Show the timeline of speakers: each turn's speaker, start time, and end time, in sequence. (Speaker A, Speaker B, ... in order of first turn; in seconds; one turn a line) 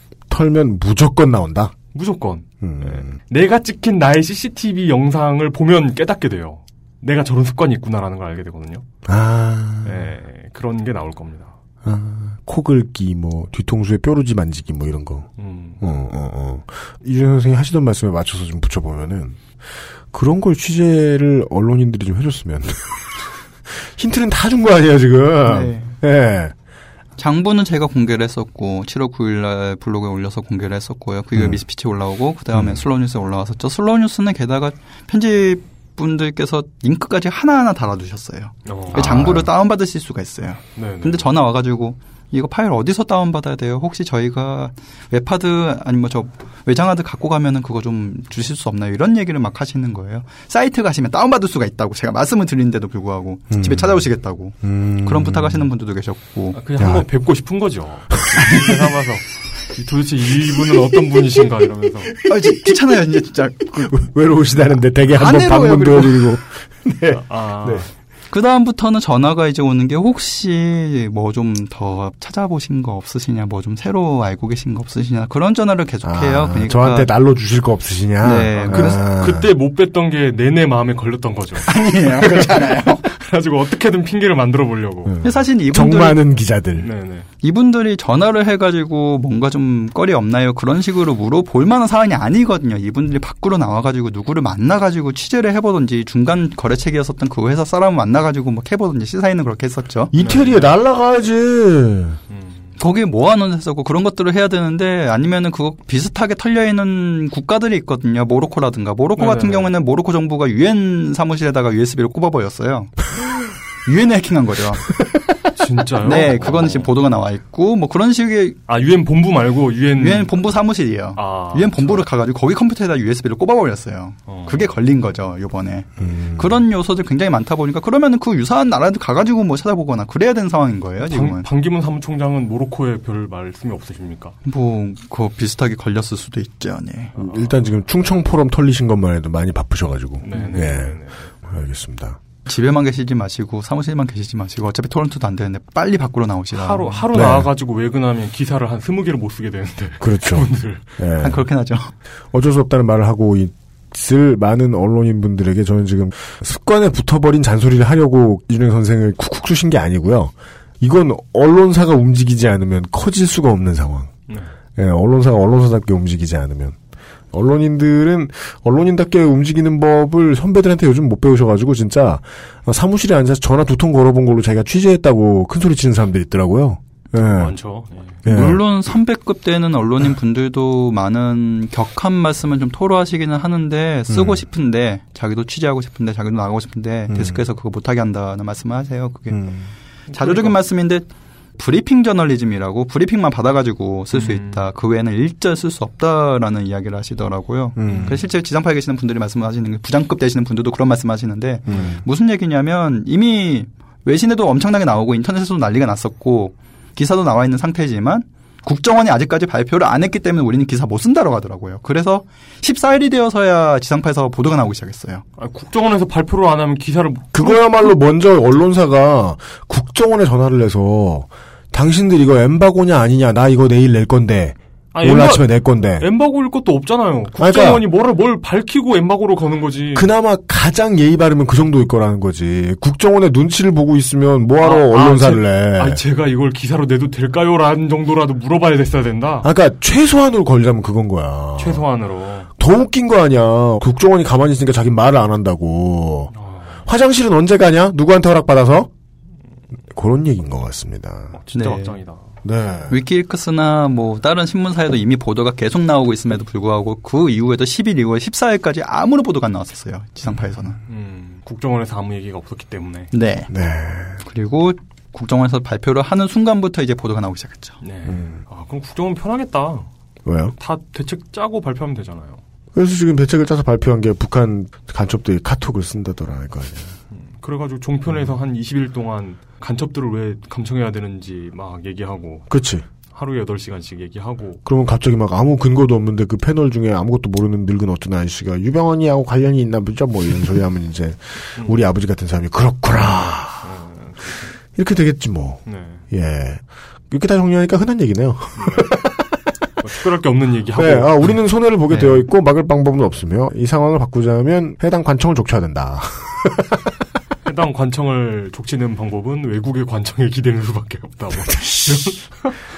Speaker A: 0.3-1.7
Speaker B: 1.9-8.8
Speaker A: 2.6-3.1
Speaker A: 9.1-10.1
Speaker B: 9.8-11.5
Speaker A: 11.8-15.3
Speaker B: 15.4-15.8
Speaker A: 15.8-19.4
Speaker A: 20.1-26.5
Speaker C: 25.4-25.9
Speaker C: 27.2-56.6
Speaker A: 32.5-32.8
Speaker B: 38.6-39.3
Speaker A: 38.9-39.5
Speaker B: 40.8-41.3
Speaker A: 53.5-54.0
Speaker A: 54.6-55.7
Speaker B: 56.5-62.1
Speaker A: 56.8-57.1
Speaker A: 58.2-58.8
Speaker C: 62.2-64.0
Speaker A: 63.8-67.9
Speaker C: 65.0-66.2
Speaker B: 67.1-67.9
Speaker C: 68.3-77.1
Speaker A: 76.0-79.5
Speaker C: 78.2-79.0
Speaker B: 78.6-81.7
Speaker C: 81.7-83.0
Speaker B: 82.2-85.1
Speaker A: 85.0-86.9
Speaker C: 85.2-86.2
Speaker B: 86.8-87.3
Speaker C: 87.4-100.1
Speaker A: 100.1-102.2
Speaker B: 100.2-100.7
Speaker B: 102.3-102.8
Speaker C: 102.8-113.0
Speaker B: 109.2-109.7
Speaker C: 113.8-114.8
Speaker B: 115.5-116.9
Speaker C: 116.0-118.6
Speaker B: 118.7-120.4
Speaker C: 120.0-131.4
Speaker B: 121.1-122.0
Speaker B: 124.3-124.7
Speaker A: 126.0-126.6
Speaker B: 131.1-134.3
Speaker C: 134.4-137.1
Speaker B: 137.2-137.6
Speaker A: 137.2-142.2
Speaker B: 140.2-141.3
Speaker C: 142.5-147.0
Speaker B: 146.5-150.8
Speaker A: 147.1-147.5
Speaker A: 150.0-151.4
Speaker C: 151.2-151.9
Speaker A: 152.3-164.1
Speaker A: 164.8-166.8
Speaker A: 167.3-177.5
Speaker B: 177.1-178.2
Speaker A: 178.2-178.6
Speaker C: 178.3-189.4
Speaker A: 184.1-184.4
Speaker A: 187.1-187.4
Speaker A: 189.3-189.7
Speaker B: 190.1-190.6
Speaker C: 190.1-191.1
Speaker C: 191.6-215.2
Speaker B: 194.1-194.6
Speaker A: 197.8-198.2
Speaker B: 197.9-198.1
Speaker A: 201.7-202.0
Speaker B: 215.4-217.9
Speaker A: 217.3-226.1
Speaker B: 224.9-230.1
Speaker A: 227.4-227.8
Speaker A: 229.9-236.0
Speaker B: 234.6-239.5
Speaker A: 239.4-241.8
Speaker B: 241.6-242.5
Speaker A: 242.6-246.3
Speaker B: 246.3-246.8
Speaker A: 246.8-248.9
Speaker A: 249.9-251.3
Speaker B: 251.3-252.2
Speaker C: 251.5-252.0
Speaker A: 252.4-252.9
Speaker C: 252.9-260.8
Speaker B: 260.8-263.1
Speaker C: 263.1-263.5
Speaker A: 263.5-264.2
Speaker C: 264.2-267.8
Speaker B: 267.8-269.9
Speaker A: 270.2-270.5
Speaker B: 270.6-272.4
Speaker A: 272.7-276.9
Speaker B: 277.1-282.5
Speaker A: 282.5-282.8
Speaker B: 283.1-284.6
Speaker A: 284.6-293.7
Speaker B: 291.6-291.8
Speaker B: 293.6-294.5
Speaker A: 294.7-299.3
Speaker B: 295.6-296.0
Speaker B: 298.6-298.9
Speaker B: 299.8-301.4
Speaker A: 300.8-306.9
Speaker C: 301.9-302.2
Speaker B: 307.4-312.6
Speaker A: 311.4-312.2